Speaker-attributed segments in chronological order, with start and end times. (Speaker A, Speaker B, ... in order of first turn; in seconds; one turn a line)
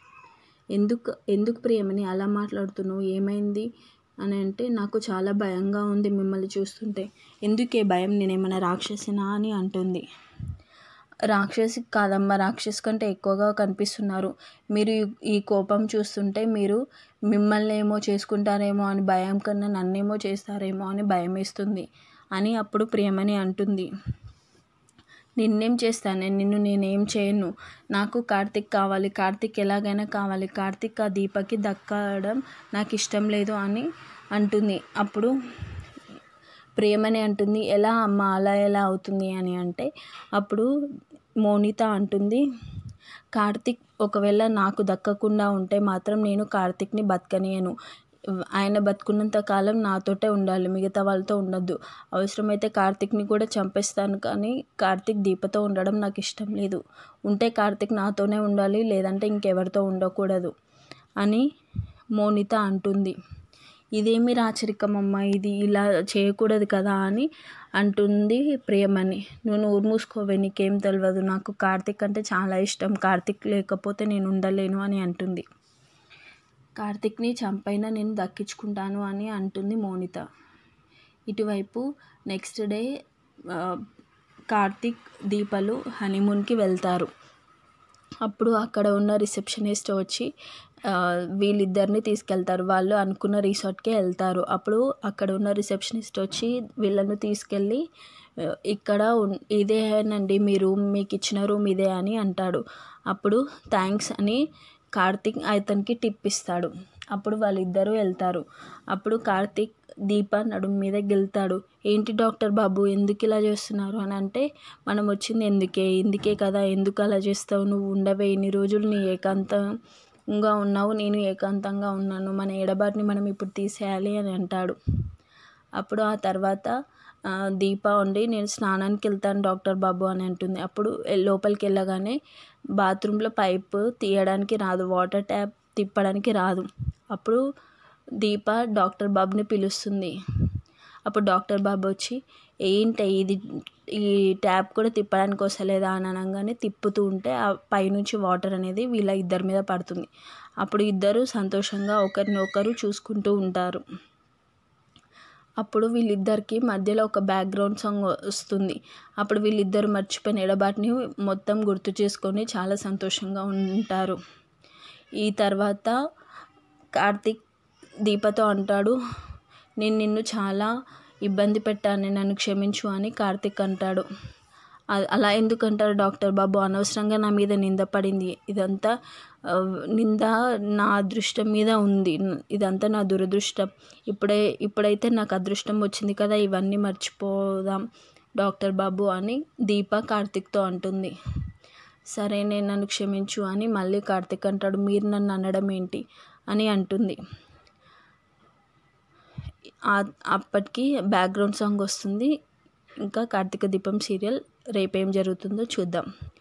Speaker A: 0.8-3.7
Speaker A: 4.2-10.0
Speaker A: 11.3-16.8
Speaker A: 17.3-23.9
Speaker A: 25.4-35.3
Speaker A: 36.8-40.6
Speaker A: 41.4-42.4
Speaker A: 43.4-47.7
Speaker A: 48.5-60.5
Speaker A: 61.2-61.5
Speaker A: 62.2-63.1
Speaker A: 64.0-75.4
Speaker A: 76.8-80.2
Speaker A: 81.3-82.9
Speaker A: 83.5-83.8
Speaker A: 84.5-87.1
Speaker A: 88.2-90.3
Speaker A: 90.9-97.8
Speaker A: 98.7-104.4
Speaker A: 105.0-119.6
Speaker A: 120.3-124.8
Speaker A: 125.8-126.7
Speaker A: 127.6-132.2
Speaker A: 132.8-137.4
Speaker A: 138.2-140.1
Speaker A: 141.1-143.4
Speaker A: 144.0-150.1
Speaker A: 150.6-153.8
Speaker A: 155.6-164.2
Speaker A: 165.2-165.9
Speaker A: 167.0-167.4
Speaker A: 168.0-169.0
Speaker A: 169.8-170.7
Speaker A: 171.2-174.1
Speaker A: 174.9-178.9
Speaker A: 179.5-187.8
Speaker A: 188.4-191.1
Speaker A: 192.1-197.2
Speaker A: 199.9-202.3
Speaker A: 203.0-206.1